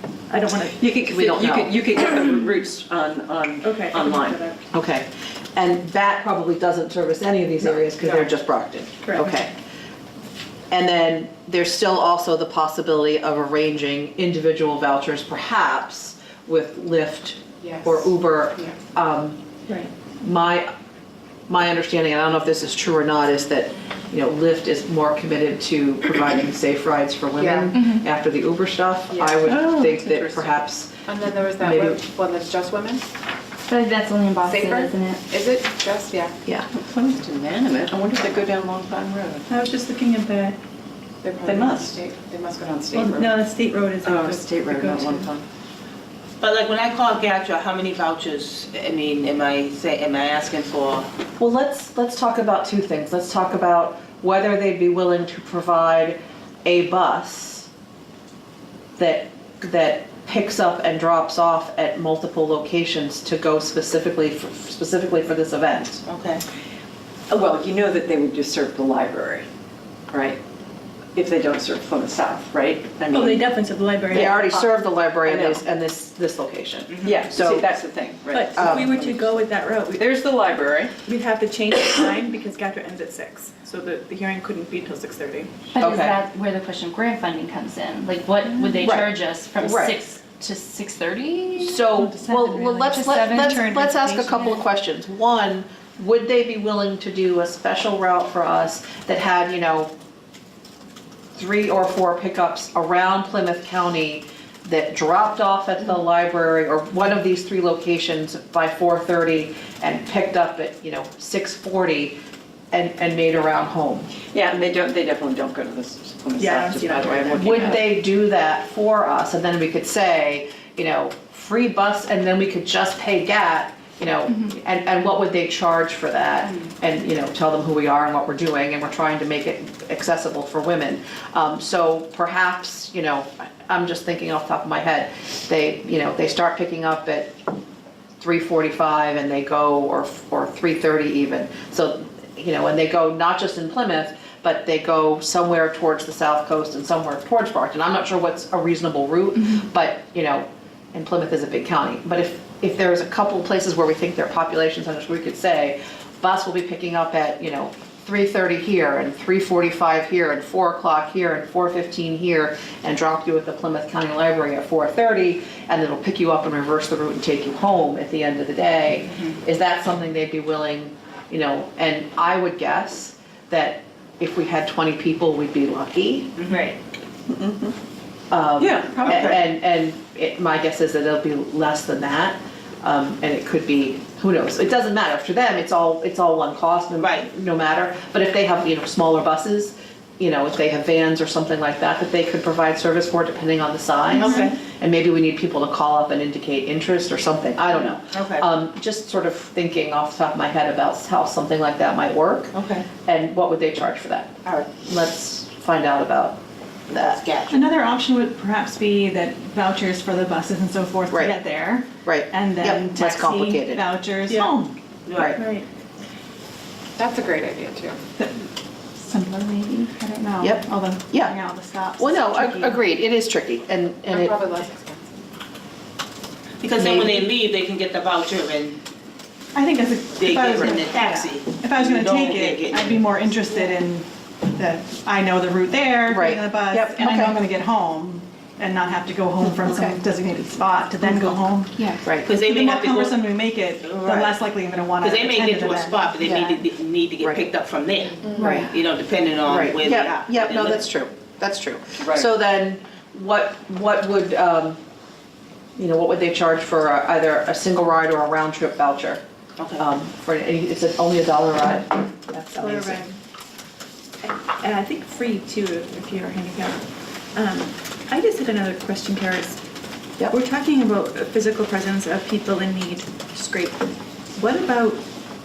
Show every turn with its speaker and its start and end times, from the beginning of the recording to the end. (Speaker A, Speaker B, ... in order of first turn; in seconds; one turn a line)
Speaker A: 0.3-0.8
Speaker B: 0.7-4.4
Speaker C: 1.1-1.8
Speaker A: 3.6-4.6
Speaker C: 4.7-9.5
Speaker A: 7.7-8.3
Speaker A: 9.0-9.4
Speaker C: 10.7-19.4
Speaker D: 17.6-18.0
Speaker A: 19.7-19.9
Speaker C: 20.2-20.7
Speaker C: 21.5-31.1
Speaker D: 27.4-27.7
Speaker E: 27.7-28.0
Speaker B: 29.4-30.6
Speaker D: 31.1-33.0
Speaker C: 31.6-32.0
Speaker E: 33.6-35.2
Speaker D: 34.4-36.3
Speaker B: 36.7-39.5
Speaker A: 39.5-40.6
Speaker D: 41.2-43.3
Speaker B: 41.4-42.0
Speaker A: 42.9-45.3
Speaker B: 44.0-45.4
Speaker F: 46.4-51.1
Speaker C: 51.4-57.7
Speaker C: 59.0-66.0
Speaker F: 66.0-66.4
Speaker B: 67.3-69.5
Speaker B: 70.1-70.4
Speaker B: 71.2-73.5
Speaker A: 73.1-74.5
Speaker B: 74.1-75.6
Speaker C: 74.1-77.7
Speaker B: 77.0-79.4
Speaker A: 78.3-80.0
Speaker C: 78.6-78.8
Speaker B: 79.9-80.9
Speaker A: 81.0-85.5
Speaker E: 85.7-91.9
Speaker C: 85.8-86.2
Speaker C: 88.8-90.0
Speaker C: 91.6-99.9
Speaker G: 91.9-94.5
Speaker C: 101.3-112.2
Speaker C: 112.7-114.1
Speaker B: 114.3-117.9
Speaker A: 116.4-117.7
Speaker C: 117.3-137.3
Speaker C: 138.2-176.3
Speaker E: 176.5-176.7
Speaker B: 177.3-177.7
Speaker C: 178.3-202.5
Speaker B: 178.6-179.3
Speaker F: 179.0-179.4
Speaker F: 186.9-187.3
Speaker F: 194.2-194.6
Speaker F: 197.9-198.5
Speaker F: 202.5-202.9
Speaker C: 203.0-204.3
Speaker F: 204.4-204.8
Speaker C: 204.8-206.4
Speaker F: 206.9-207.7
Speaker C: 206.9-207.2
Speaker G: 207.5-214.7
Speaker C: 212.0-213.8
Speaker A: 214.3-214.5
Speaker F: 215.1-215.4
Speaker A: 215.2-215.6
Speaker D: 217.0-218.0
Speaker G: 219.0-222.8
Speaker C: 220.4-221.3
Speaker C: 222.0-224.3
Speaker D: 224.1-225.1
Speaker F: 226.6-228.8
Speaker C: 226.8-227.3
Speaker G: 229.5-246.1
Speaker F: 230.2-233.1
Speaker C: 236.1-237.4
Speaker C: 239.6-240.0
Speaker C: 242.0-242.3
Speaker F: 242.2-243.2
Speaker F: 243.8-244.4
Speaker F: 245.0-250.9
Speaker D: 248.2-248.7
Speaker C: 248.4-248.7
Speaker C: 249.4-254.8
Speaker B: 252.0-252.3
Speaker C: 255.8-259.2
Speaker F: 259.6-259.9
Speaker C: 259.8-263.0
Speaker A: 262.5-263.1
Speaker A: 264.2-269.6
Speaker A: 270.3-273.8
Speaker A: 274.3-275.0